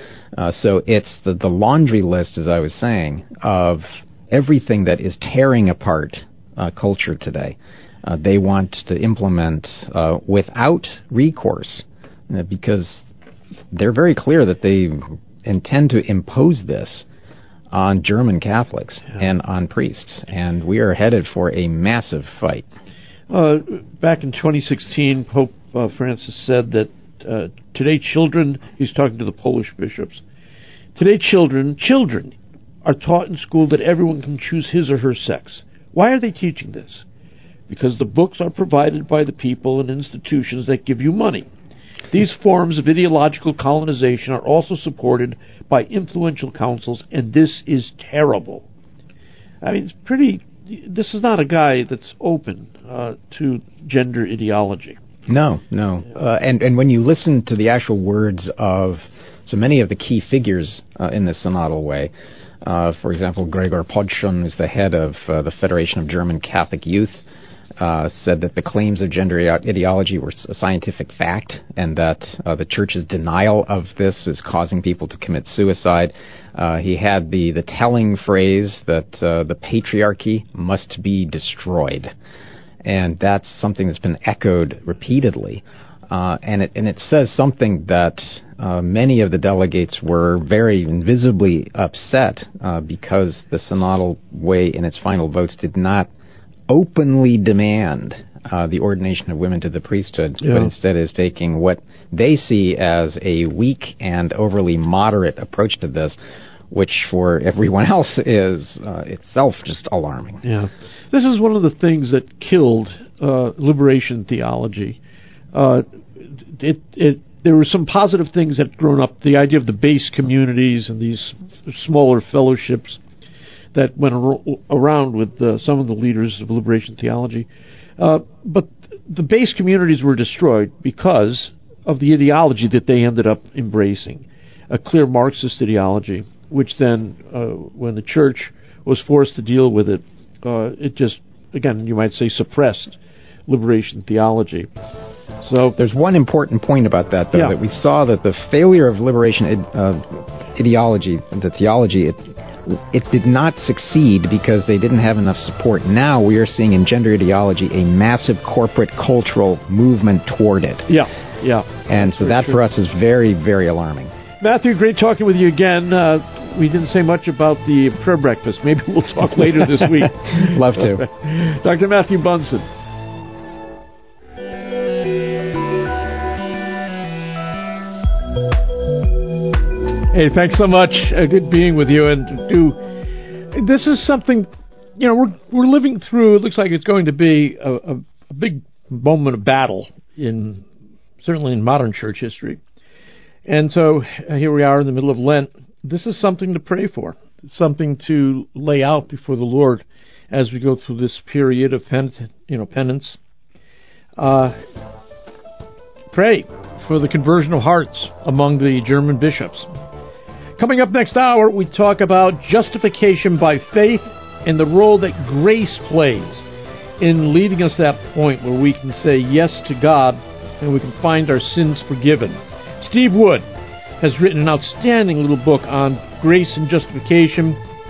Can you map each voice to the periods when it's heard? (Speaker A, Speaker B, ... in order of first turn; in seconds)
Speaker A: 0.3-13.0, 13.7-17.1, 17.7-22.6, 55.3-62.1, 62.6-67.2, 67.8-82.1, 82.8-96.1, 96.7-106.2, 106.7-110.4, 145.8-160.9, 161.9-164.1, 170.3-171.1
Speaker B: 23.3-30.2, 30.9-37.0, 37.7-41.5, 42.1-48.6, 49.6-55.0, 100.4-100.7, 110.4-115.0, 115.5-123.0, 123.7-127.5, 128.0-144.7, 145.4-145.8, 160.9-162.6, 164.4-172.7, 180.1-182.8, 183.5-190.6, 191.2-192.6, 193.4-203.2, 204.2-204.5, 206.1-209.7, 210.6-216.4, 217.0-223.4, 224.0-227.6